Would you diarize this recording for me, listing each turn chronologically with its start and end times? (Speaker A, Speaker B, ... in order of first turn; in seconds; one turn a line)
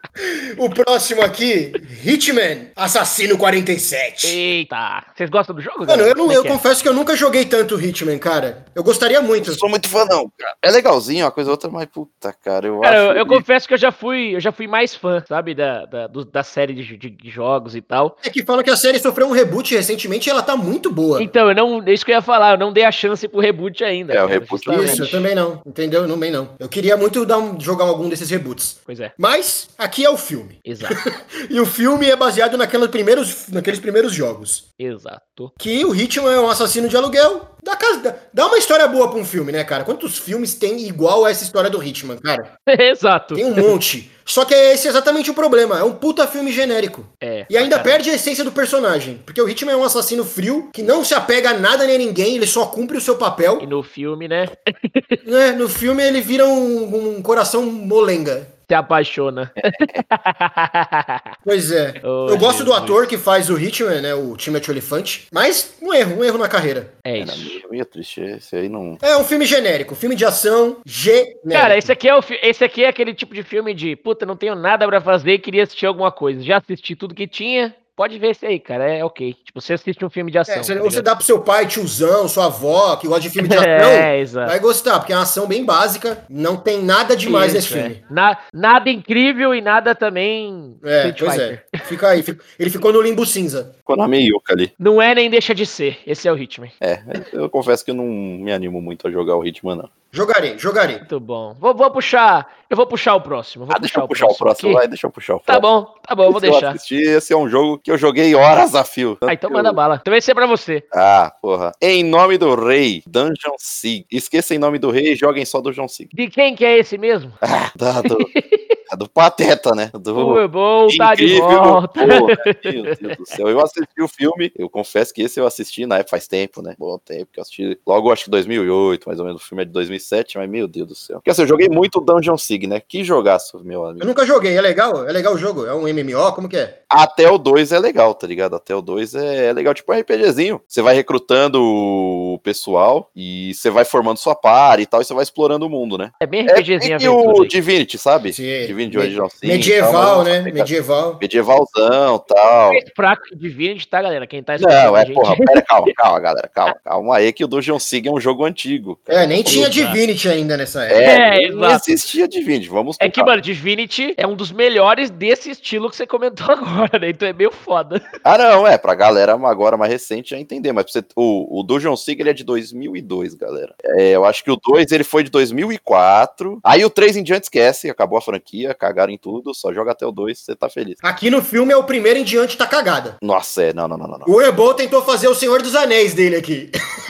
Speaker A: 0.2-4.4
Speaker B: 4.2-6.6
Speaker A: 5.8-9.6
Speaker C: 9.4-13.4
Speaker B: 12.8-18.1
Speaker A: 18.2-21.3
Speaker B: 21.1-25.2
Speaker C: 24.1-25.2
Speaker A: 24.7-34.6
Speaker B: 28.9-29.1
Speaker B: 30.6-31.0
Speaker B: 34.8-35.5
Speaker A: 35.6-42.5
Speaker B: 42.7-43.7
Speaker A: 43.3-53.6
Speaker B: 47.2-48.0
Speaker B: 53.6-55.2
Speaker A: 55.2-58.5
Speaker B: 58.7-61.3
Speaker C: 59.6-60.0
Speaker A: 61.4-67.0
Speaker B: 62.0-63.0
Speaker B: 67.0-67.6
Speaker C: 67.2-69.0
Speaker A: 69.0-71.9
Speaker B: 71.5-81.0
Speaker A: 80.5-88.0
Speaker B: 83.4-84.5
Speaker B: 87.2-91.7
Speaker A: 90.8-93.7
Speaker C: 93.9-94.7
Speaker B: 94.8-96.7
Speaker C: 96.8-99.9
Speaker A: 100.1-101.0
Speaker B: 101.0-104.8
Speaker C: 103.7-105.6
Speaker B: 105.5-106.8
Speaker C: 106.3-109.8
Speaker B: 109.2-110.8
Speaker C: 110.9-116.1
Speaker B: 116.1-117.4
Speaker C: 117.4-118.3
Speaker B: 118.0-118.7
Speaker C: 118.9-134.1
Speaker B: 120.1-123.3
Speaker A: 134.0-136.8
Speaker C: 136.9-150.7
Speaker B: 146.2-147.5
Speaker A: 148.3-151.2
Speaker C: 151.2-152.8
Speaker B: 152.7-155.9
Speaker C: 154.6-160.0
Speaker A: 159.1-161.1
Speaker B: 159.5-160.0
Speaker C: 160.9-163.3
Speaker B: 161.0-161.8
Speaker B: 163.0-168.0
Speaker C: 168.2-181.0
Speaker A: 181.0-183.2
Speaker C: 183.2-184.3
Speaker A: 184.2-186.7